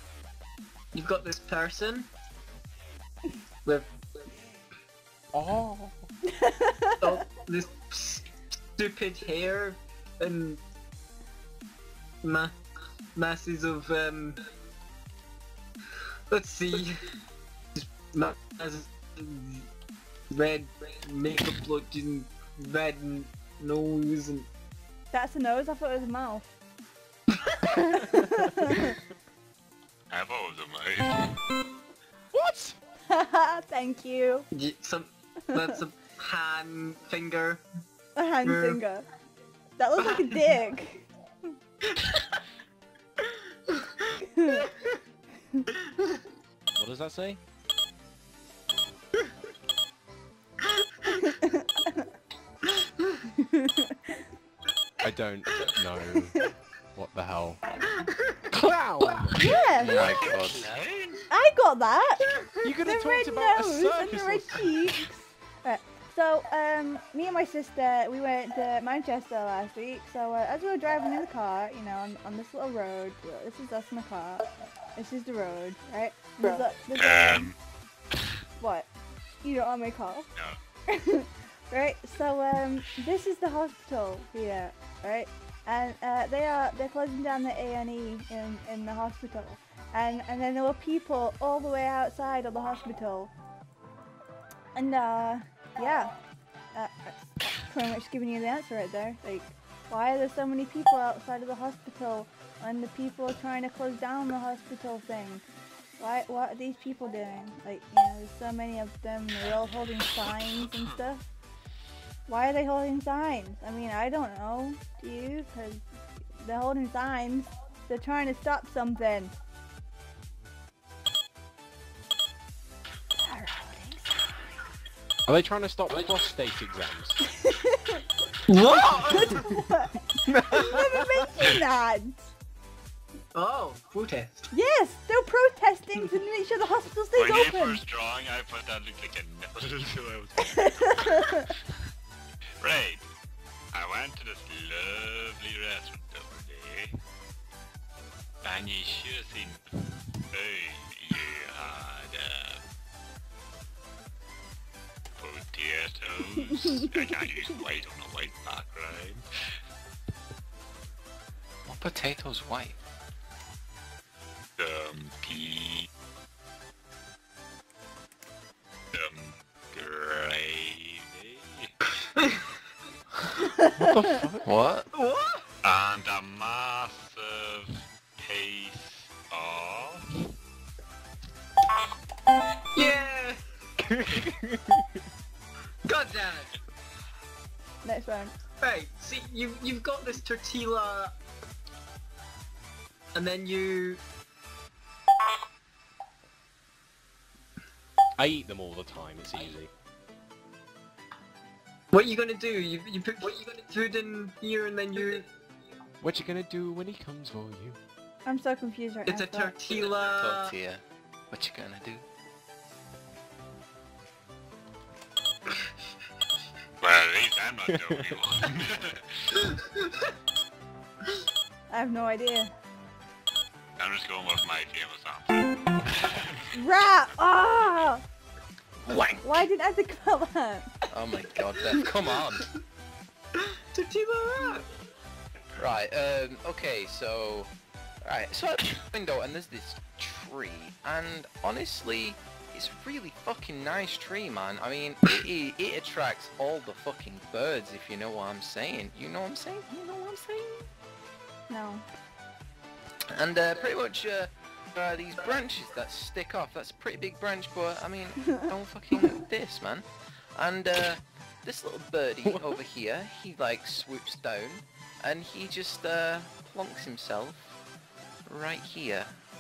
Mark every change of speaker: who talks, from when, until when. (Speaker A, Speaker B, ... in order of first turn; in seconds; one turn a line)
Speaker A: 0.9-2.1
Speaker B: 5.3-6.1
Speaker C: 6.3-7.1
Speaker A: 7.0-10.6
Speaker A: 12.2-12.6
Speaker A: 13.1-14.4
Speaker A: 16.3-16.9
Speaker A: 17.7-19.6
Speaker A: 20.3-24.5
Speaker C: 25.1-26.5
Speaker A: 27.3-27.8
Speaker C: 28.1-28.9
Speaker D: 30.1-31.3
Speaker B: 32.3-32.8
Speaker C: 33.1-34.5
Speaker A: 34.5-37.6
Speaker C: 35.5-35.8
Speaker C: 38.1-39.1
Speaker A: 38.4-38.8
Speaker C: 39.8-41.1
Speaker A: 40.0-40.5
Speaker A: 43.7-44.0
Speaker C: 44.2-44.7
Speaker A: 45.7-46.2
Speaker B: 46.7-47.4
Speaker C: 51.1-52.0
Speaker A: 52.7-53.2
Speaker C: 53.4-54.2
Speaker B: 55.0-56.4
Speaker B: 56.9-57.6
Speaker A: 57.8-58.4
Speaker B: 58.5-59.4
Speaker C: 59.3-60.1
Speaker E: 59.8-60.7
Speaker D: 59.9-61.2
Speaker C: 61.3-62.3
Speaker A: 62.2-62.7
Speaker B: 62.6-64.7
Speaker C: 62.8-77.5
Speaker D: 76.9-77.6
Speaker C: 78.6-78.9
Speaker C: 79.4-80.3
Speaker C: 80.9-93.3
Speaker C: 94.7-96.1
Speaker C: 96.7-105.4
Speaker C: 106.0-111.2
Speaker D: 110.5-110.9
Speaker C: 112.2-115.8
Speaker C: 116.4-119.3
Speaker C: 123.2-124.4
Speaker B: 125.3-127.2
Speaker C: 127.4-128.0
Speaker A: 128.5-129.5
Speaker C: 129.0-132.2
Speaker B: 130.2-131.2
Speaker A: 133.3-134.4
Speaker C: 134.5-137.8
Speaker D: 137.1-141.7
Speaker C: 140.5-141.5
Speaker D: 142.6-143.1
Speaker D: 143.7-146.9
Speaker D: 148.4-149.6
Speaker D: 150.3-152.6
Speaker D: 155.2-159.2
Speaker E: 161.7-162.8
Speaker D: 164.6-165.9
Speaker D: 168.9-171.7
Speaker A: 172.2-172.5
Speaker B: 173.8-174.5
Speaker E: 174.4-174.9
Speaker A: 174.9-175.4
Speaker D: 175.6-180.0
Speaker A: 182.7-183.4
Speaker B: 183.8-185.0
Speaker A: 185.8-186.5
Speaker C: 187.8-188.3
Speaker A: 188.6-191.1
Speaker A: 193.1-194.0
Speaker B: 198.2-199.7
Speaker A: 201.9-205.3
Speaker B: 206.0-207.8
Speaker C: 208.2-209.5
Speaker A: 209.1-210.5
Speaker E: 209.7-212.0
Speaker D: 216.8-219.5
Speaker B: 217.7-218.2
Speaker A: 219.4-220.1
Speaker C: 221.7-222.5
Speaker D: 223.8-226.5
Speaker C: 226.5-228.0
Speaker E: 228.9-229.2
Speaker C: 229.2-230.7
Speaker E: 230.9-232.5
Speaker A: 233.3-234.7
Speaker E: 235.6-237.5
Speaker E: 238.0-250.6
Speaker C: 251.5-251.8
Speaker E: 253.1-267.6
Speaker B: 262.2-262.6
Speaker E: 268.3-269.1